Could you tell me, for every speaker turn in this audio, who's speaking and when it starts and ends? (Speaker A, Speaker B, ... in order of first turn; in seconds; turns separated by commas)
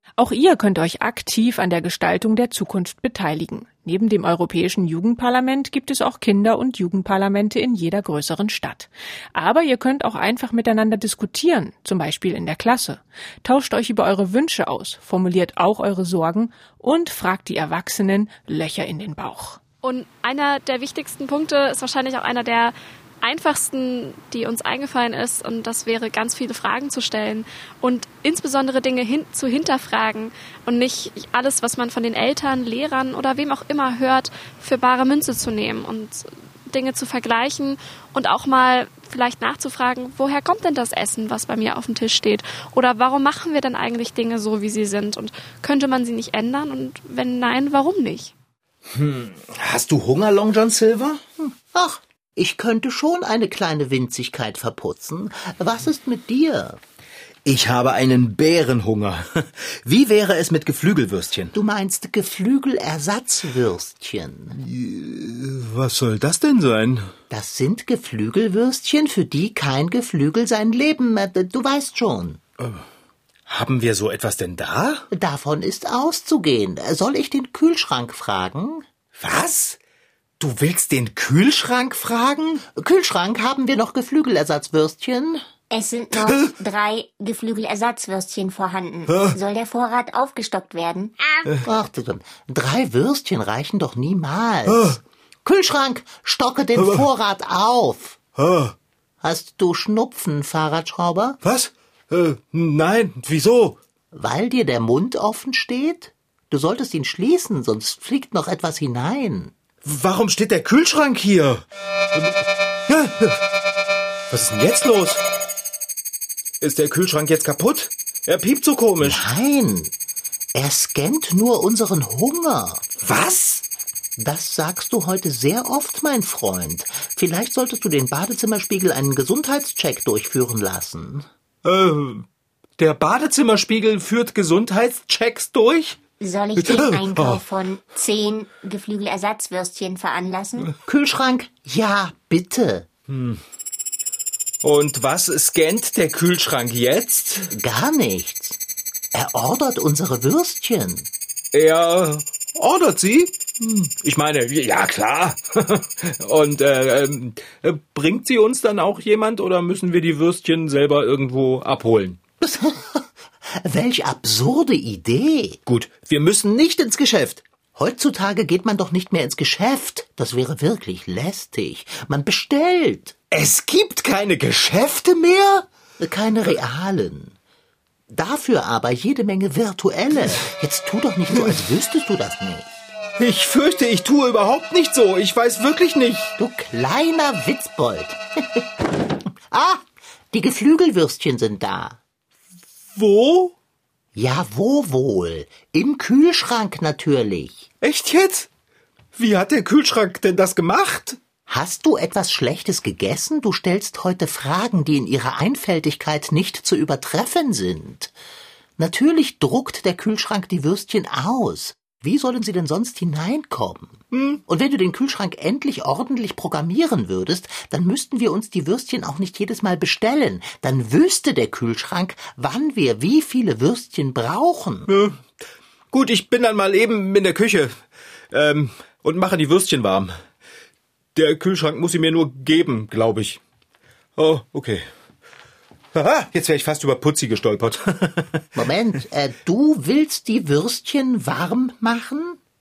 Speaker A: 0.2-19.6, Speaker B: 19.8-48.3, Speaker C: 48.9-51.2, Speaker D: 51.4-56.8, Speaker C: 57.4-61.5, Speaker D: 61.5-64.6, Speaker C: 64.5-67.1, Speaker D: 67.3-72.4, Speaker C: 72.6-72.8, Speaker C: 73.5-75.1, Speaker D: 75.1-78.8, Speaker C: 79.2-79.8, Speaker C: 80.4-82.6, Speaker D: 82.7-85.5, Speaker E: 85.7-91.4, Speaker C: 89.1-89.3, Speaker D: 91.6-98.2, Speaker C: 94.7-95.0, Speaker C: 96.8-97.0, Speaker C: 98.3-98.7, Speaker D: 99.2-101.4, Speaker C: 101.4-103.8, Speaker D: 104.1-109.5, Speaker C: 109.8-113.4, Speaker C: 114.3-115.2, Speaker C: 116.6-119.3, Speaker D: 119.0-119.9, Speaker D: 120.5-122.9, Speaker C: 123.0-123.7, Speaker D: 124.2-131.3, Speaker C: 131.6-132.2, Speaker C: 132.8-136.0, Speaker E: 136.2-140.7, Speaker C: 136.6-137.4, Speaker D: 140.8-142.9, Speaker C: 143.1-143.4, Speaker C: 144.6-147.5, Speaker D: 147.5-148.6, Speaker D: 149.1-151.1, Speaker C: 151.5-162.2, Speaker D: 162.4-165.6, Speaker C: 165.7-167.4, Speaker D: 167.7-173.2, Speaker C: 173.3-175.7, Speaker D: 176.0-177.3, Speaker D: 178.1-182.7, Speaker C: 183.2-186.3, Speaker D: 186.4-188.7, Speaker D: 189.5-192.0, Speaker C: 192.9-193.5, Speaker D: 194.1-197.7, Speaker C: 197.8-198.5, Speaker C: 199.1-201.2, Speaker D: 201.5-208.1, Speaker D: 208.8-224.9, Speaker C: 214.1-214.4, Speaker C: 224.9-225.2, Speaker C: 225.9-227.8, Speaker C: 228.3-230.2, Speaker C: 231.1-233.4, Speaker C: 234.2-234.9, Speaker C: 235.9-238.5, Speaker D: 238.6-242.4